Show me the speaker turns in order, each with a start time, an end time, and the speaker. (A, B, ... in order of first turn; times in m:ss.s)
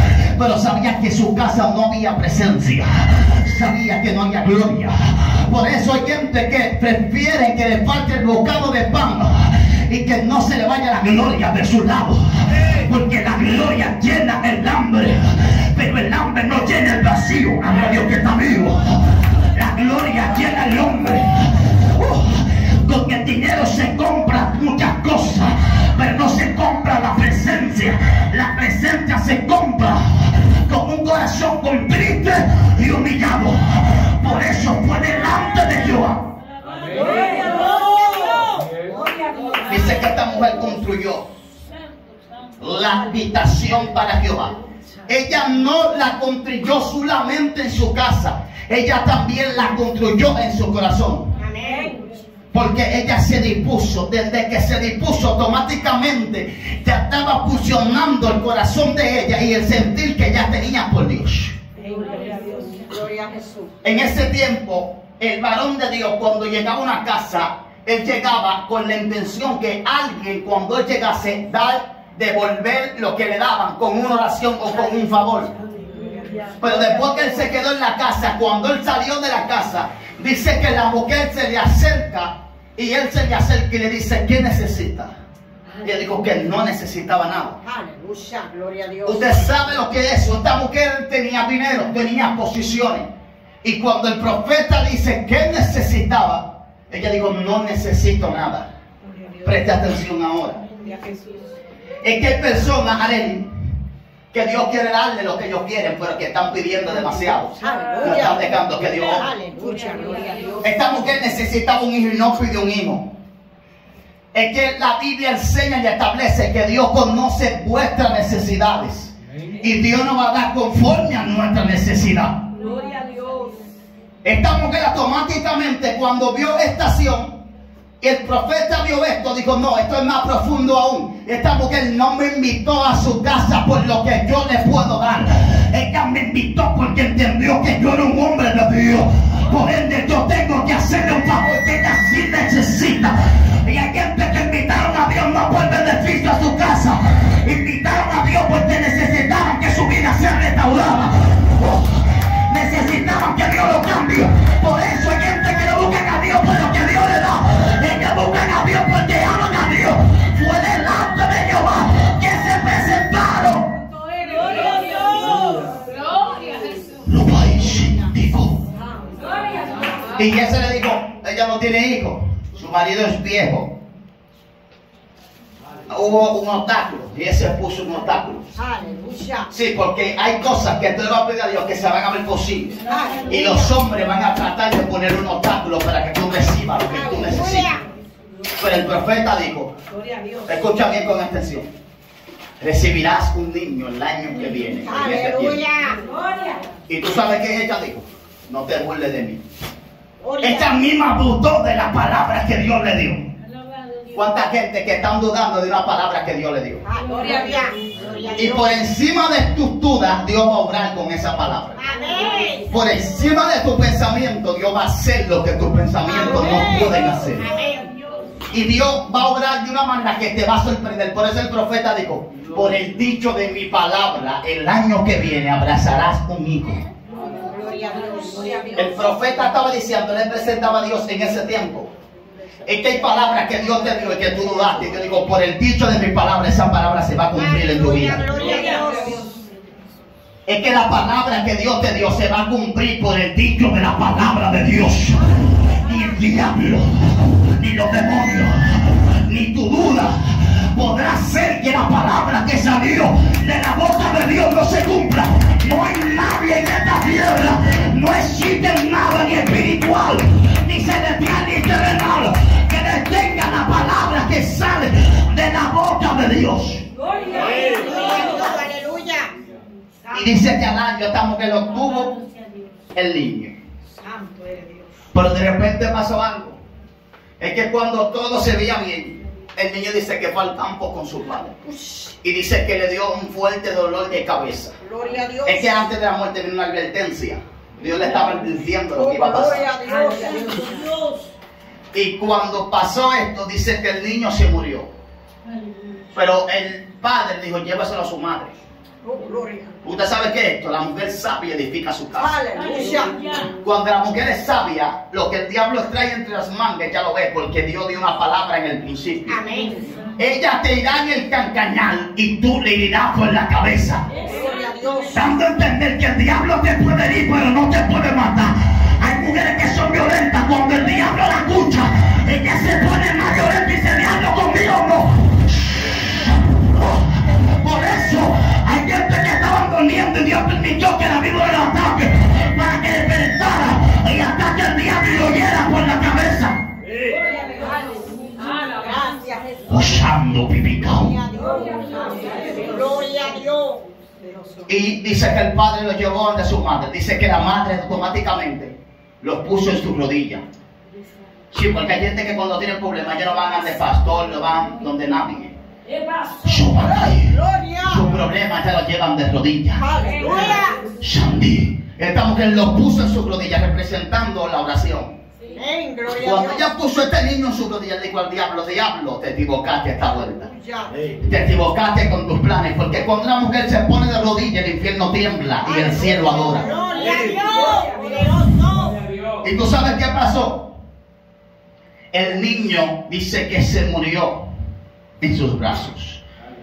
0:00.3-0:18.8 A
0:19.5-0:21.3 A
0:21.8-0:30.0 A
0:30.6-0:36.2 A
0:36.9-0:37.5 B
0:37.1-0:39.6 C
0:39.7-0:41.2 A
0:42.6-0:44.5 A
0:45.1-0:51.3 A
0:51.4-0:52.0 C
0:52.5-1:01.6 A
1:01.9-1:03.7 C
1:03.8-1:15.5 A
1:16.6-1:25.1 A
1:25.8-1:27.6 A
1:27.6-1:29.8 C
1:29.1-1:33.1 A
1:33.6-1:38.7 A
1:39.4-1:40.6 A
1:42.0-1:43.5 A
1:44.3-1:49.2 A
1:47.6-1:50.8 C
1:47.7-1:48.3 B
1:50.6-1:53.0 A
1:54.3-2:02.4 A
2:02.6-2:03.6 B
2:04.2-2:07.3 A
2:08.0-2:31.8 A
2:32.5-2:43.7 A
2:44.2-2:45.4 B
2:47.1-2:48.6 A
2:50.2-2:53.7 A
2:55.9-2:58.4 A
2:58.6-2:59.5 C
2:59.5-3:07.7 A
3:02.9-3:03.8 C
3:06.8-3:07.8 C
3:08.6-3:09.7 A
3:10.0-3:10.4 B
3:10.5-3:11.7 A
3:12.6-3:15.6 A
3:14.8-3:16.0 C
3:16.1-3:16.6 B
3:16.9-3:19.4 A
3:20.2-3:20.8 C
3:20.4-3:23.2 A
3:24.2-3:26.8 A
3:26.8-3:28.8 C
3:28.4-3:31.8 A
3:31.8-3:32.7 C
3:32.7-3:37.4 A
3:36.0-3:37.9 C
3:38.5-3:46.8 A
3:47.3-3:49.0 C
3:48.8-3:51.9 A
3:52.7-3:58.3 A
3:57.4-3:59.3 C
3:58.6-3:59.1 B
4:00.5-4:05.3 A
4:05.8-4:06.9 A
4:07.6-4:10.2 A
4:10.7-4:26.8 A
4:27.2-4:27.6 B
4:27.4-4:29.3 C
4:30.1-4:32.1 A
4:32.9-4:33.5 A
4:35.1-4:36.6 A
4:37.4-4:41.5 A
4:41.6-4:42.2 C
4:42.2-4:44.7 A
4:44.8-4:45.9 C
4:45.5-4:49.7 A
4:48.9-4:50.7 C
4:49.9-4:51.3 B
4:51.9-4:54.9 A
4:56.1-4:58.6 A
4:59.0-4:59.8 C
4:59.8-5:02.4 A
5:02.2-5:03.2 C
5:02.8-5:03.1 B
5:03.6-5:09.4 A
5:09.3-5:09.9 C
5:10.2-5:14.0 A
5:14.2-5:15.2 C
5:15.1-5:25.1 A
5:27.6-5:36.6 A
5:37.1-5:38.7 B
5:38.7-5:40.0 C
5:39.7-5:41.2 A
5:40.8-5:43.8 C
5:41.8-5:42.6 B
5:44.7-5:50.4 A
5:51.5-5:55.6 A
5:55.9-5:56.4 B
5:56.4-5:59.8 A
5:56.8-5:58.1 C
5:59.8-6:00.8 C
6:00.1-6:00.8 B
6:01.0-6:05.1 A
6:05.5-6:06.7 C
6:06.2-6:10.5 A
6:10.2-6:10.9 C
6:11.2-6:16.7 A
6:15.6-6:19.0 C
6:19.4-6:20.6 A
6:22.1-6:24.4 A
6:25.2-6:26.2 A